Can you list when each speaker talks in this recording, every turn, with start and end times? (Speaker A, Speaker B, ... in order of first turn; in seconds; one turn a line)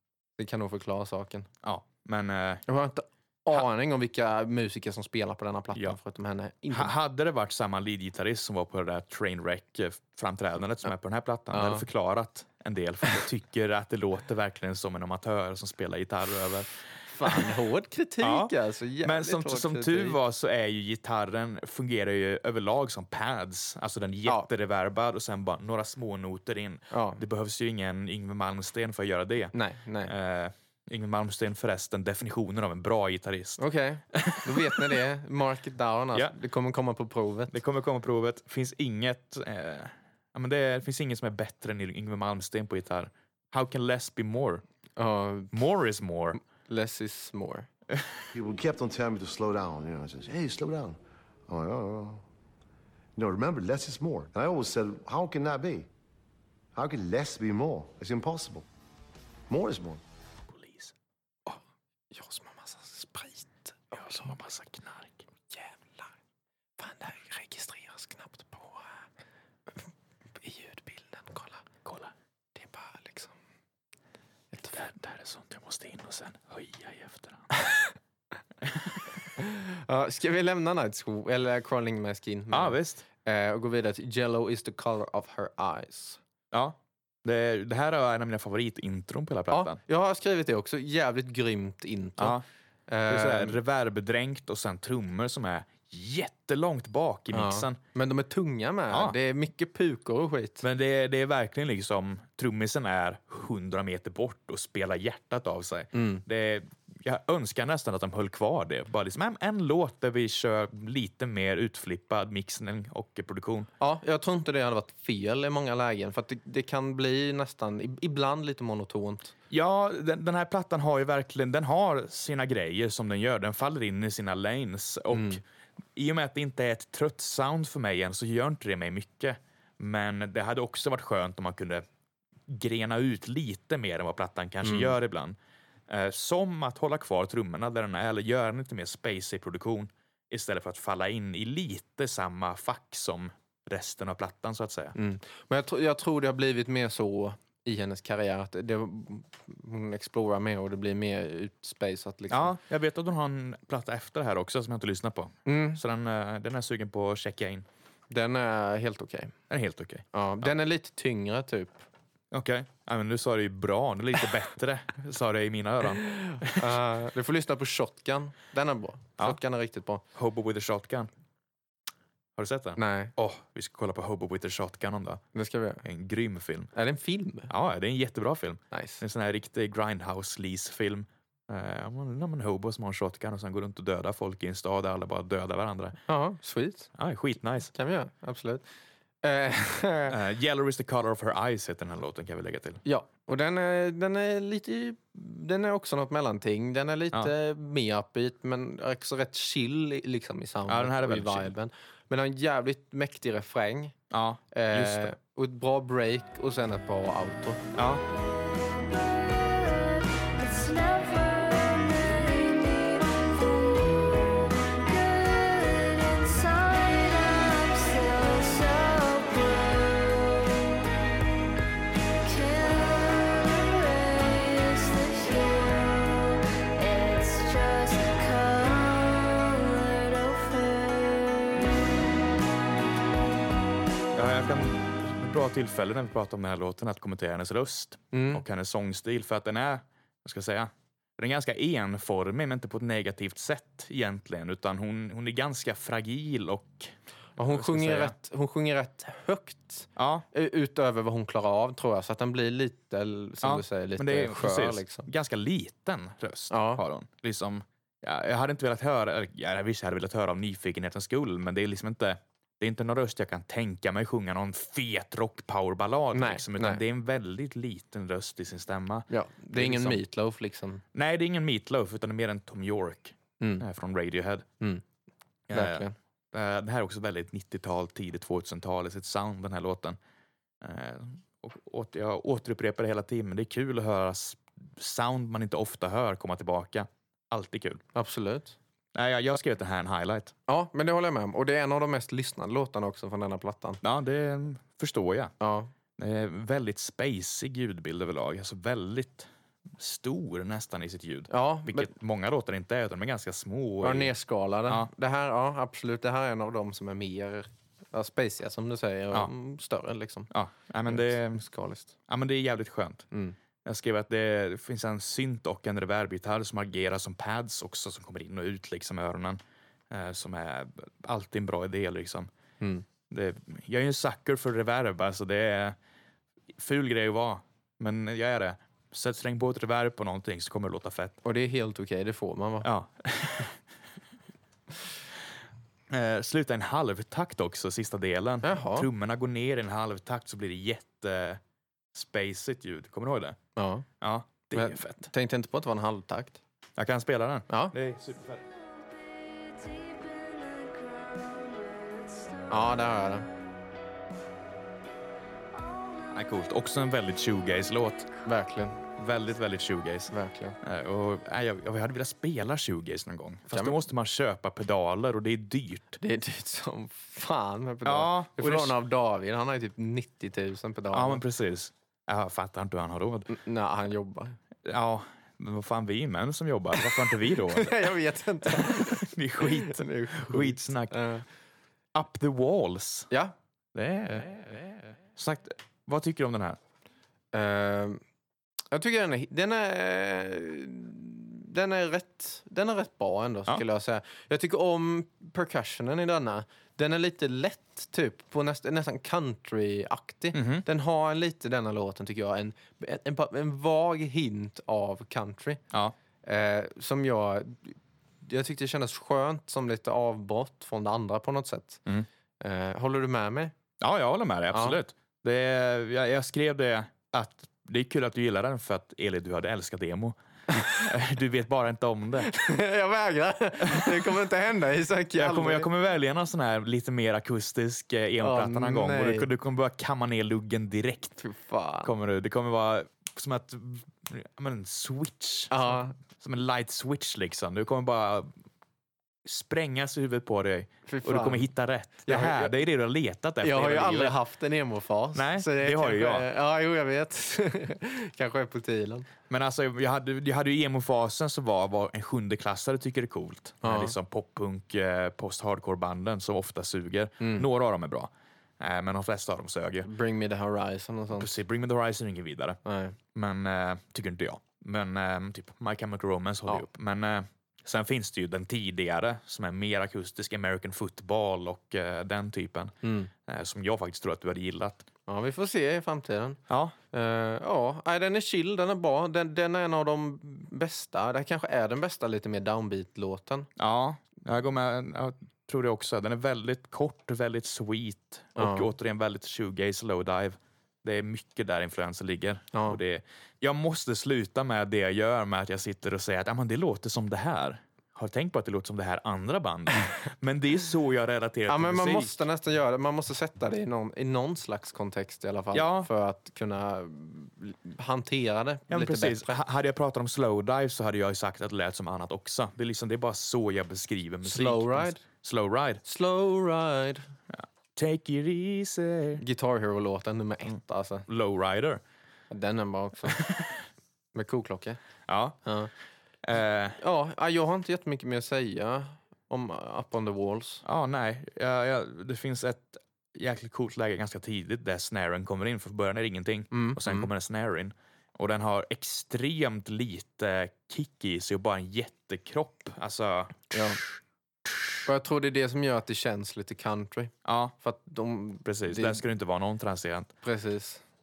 Speaker A: 0.4-1.5
Speaker B: 1.6-2.6
Speaker A: 2.7-6.9
Speaker B: 6.7-17.5
Speaker A: 11.5-11.8
Speaker A: 17.1-20.2
Speaker B: 18.2-35.0
Speaker A: 26.9-27.2
Speaker A: 29.5-30.1
Speaker A: 33.6-37.5
Speaker B: 37.5-44.6
Speaker A: 45.0-45.5
Speaker B: 45.5-46.4
Speaker A: 46.3-47.7
Speaker C: 48.3-52.2
Speaker C: 53.1-55.9
Speaker C: 56.7-58.6
Speaker C: 59.5-60.0
Speaker B: 60.5-60.9
Speaker A: 62.1-64.3
Speaker B: 63.9-65.2
Speaker A: 65.5-66.1
Speaker A: 66.8-68.9
Speaker A: 70.4-71.6
Speaker B: 71.8-72.1
Speaker A: 72.5-73.3
Speaker B: 74.7-77.5
Speaker B: 78.6-79.0
Speaker A: 79.4-86.2
Speaker B: 82.5-83.0
Speaker B: 86.5-89.8
Speaker A: 89.5-93.6
Speaker B: 92.2-92.4
Speaker B: 93.1-97.8
Speaker A: 97.3-100.6
Speaker B: 98.9-99.2
Speaker B: 100.6-113.7
Speaker A: 105.9-106.2
Speaker A: 113.8-119.3
Speaker B: 119.5-125.4
Speaker A: 125.1-125.4
Speaker B: 126.0-131.8
Speaker B: 132.5-135.4
Speaker A: 134.6-134.9
Speaker B: 135.9-144.9
Speaker A: 144.9-152.6
Speaker B: 152.3-157.7
Speaker A: 155.4-155.8
Speaker A: 158.1-159.3
Speaker B: 159.5-160.4
Speaker A: 160.1-161.8
Speaker B: 162.3-166.7
Speaker A: 166.4-170.0
Speaker B: 170.1-171.1
Speaker B: 172.4-175.2
Speaker A: 172.8-173.1
Speaker A: 175.3-175.8
Speaker B: 175.8-176.7
Speaker A: 176.7-177.5
Speaker B: 177.5-186.0
Speaker A: 178.7-179.0
Speaker A: 186.1-186.9
Speaker B: 186.9-187.7
Speaker A: 187.7-188.7
Speaker A: 189.2-190.2
Speaker B: 190.1-192.8
Speaker A: 192.8-203.9
Speaker B: 200.7-201.5
Speaker B: 204.1-205.1
Speaker A: 204.5-207.6
Speaker B: 207.7-208.0
Speaker D: 208.7-220.9
Speaker D: 222.2-231.7
Speaker B: 234.1-246.9
Speaker A: 238.1-238.4
Speaker A: 247.4-255.1
Speaker B: 247.5-248.1
Speaker B: 249.9-250.3
Speaker B: 253.4-270.0
Speaker A: 256.5-256.8
Speaker A: 266.1-266.8
Speaker A: 269.1-270.8
Speaker B: 270.9-274.4
Speaker A: 273.4-273.6
Speaker B: 275.5-280.0
Speaker A: 275.5-275.9
Speaker B: 280.6-287.8
Speaker A: 287.9-288.6
Speaker B: 288.9-290.3
Speaker A: 290.5-293.8
Speaker B: 293.8-295.3
Speaker A: 295.4-295.7
Speaker B: 296.0-304.1
Speaker A: 301.3-301.9
Speaker A: 303.8-310.3
Speaker B: 310.3-311.4
Speaker A: 310.9-311.9
Speaker B: 312.1-313.1
Speaker B: 313.6-322.3
Speaker B: 323.1-325.8
Speaker B: 326.5-331.2
Speaker A: 331.2-332.7
Speaker B: 332.6-333.6
Speaker B: 335.9-341.4
Speaker A: 338.4-338.9
Speaker B: 341.9-343.4
Speaker A: 343.6-343.9
Speaker B: 344.0-345.1
Speaker A: 344.5-346.4
Speaker B: 346.8-348.4
Speaker A: 347.5-347.7
Speaker D: 348.5-353.4
Speaker A: 352.5-353.3
Speaker D: 355.5-356.1
Speaker B: 356.1-358.1
Speaker A: 358.2-358.8
Speaker B: 359.0-366.0
Speaker A: 360.1-360.6
Speaker A: 363.5-363.8
Speaker A: 366.0-371.2
Speaker B: 367.8-368.8
Speaker B: 370.9-373.3
Speaker A: 373.3-374.4
Speaker B: 374.6-377.9
Speaker A: 376.9-381.2
Speaker B: 378.4-381.0
Speaker B: 381.9-383.1
Speaker B: 383.7-386.6
Speaker A: 387.3-388.0
Speaker A: 388.7-405.6
Speaker B: 400.3-400.6
Speaker A: 406.2-411.8
Speaker A: 412.4-413.5
Speaker B: 413.8-422.3
Speaker A: 414.5-414.8
Speaker A: 420.5-420.8
Speaker A: 422.2-425.7
Speaker B: 423.7-424.1
Speaker B: 425.2-431.2
Speaker A: 428.2-429.3
Speaker A: 431.2-431.9
Speaker B: 431.8-438.3
Speaker A: 435.5-435.9
Speaker B: 439.2-444.1
Speaker A: 440.9-441.5
Speaker A: 442.0-442.6
Speaker A: 443.4-449.1
Speaker B: 445.1-446.3
Speaker B: 449.3-459.9
Speaker A: 453.6-453.9
Speaker A: 457.2-457.4
Speaker A: 459.8-461.3
Speaker B: 461.1-462.6
Speaker A: 462.6-462.9
Speaker B: 463.1-474.9
Speaker A: 472.8-473.1
Speaker A: 475.1-476.4
Speaker B: 476.5-476.7
Speaker A: 476.9-483.5
Speaker B: 483.6-502.1
Speaker A: 488.4-488.7
Speaker A: 492.5-492.8
Speaker A: 501.5-509.3
Speaker B: 505.5-505.9
Speaker B: 508.7-515.8
Speaker A: 514.2-515.0
Speaker A: 515.8-517.1
Speaker B: 517.3-519.2
Speaker A: 519.2-521.1
Speaker B: 521.1-521.8
Speaker A: 522.3-523.2
Speaker B: 523.1-523.6
Speaker A: 524.1-524.8
Speaker B: 525.1-525.4
Speaker A: 525.4-525.7
Speaker B: 526.2-526.8
Speaker A: 526.8-530.6
Speaker B: 530.6-543.9
Speaker A: 536.5-537.1
Speaker A: 543.5-543.8
Speaker A: 544.8-549.0
Speaker B: 547.2-547.5
Speaker B: 548.4-550.1
Speaker A: 550.2-550.8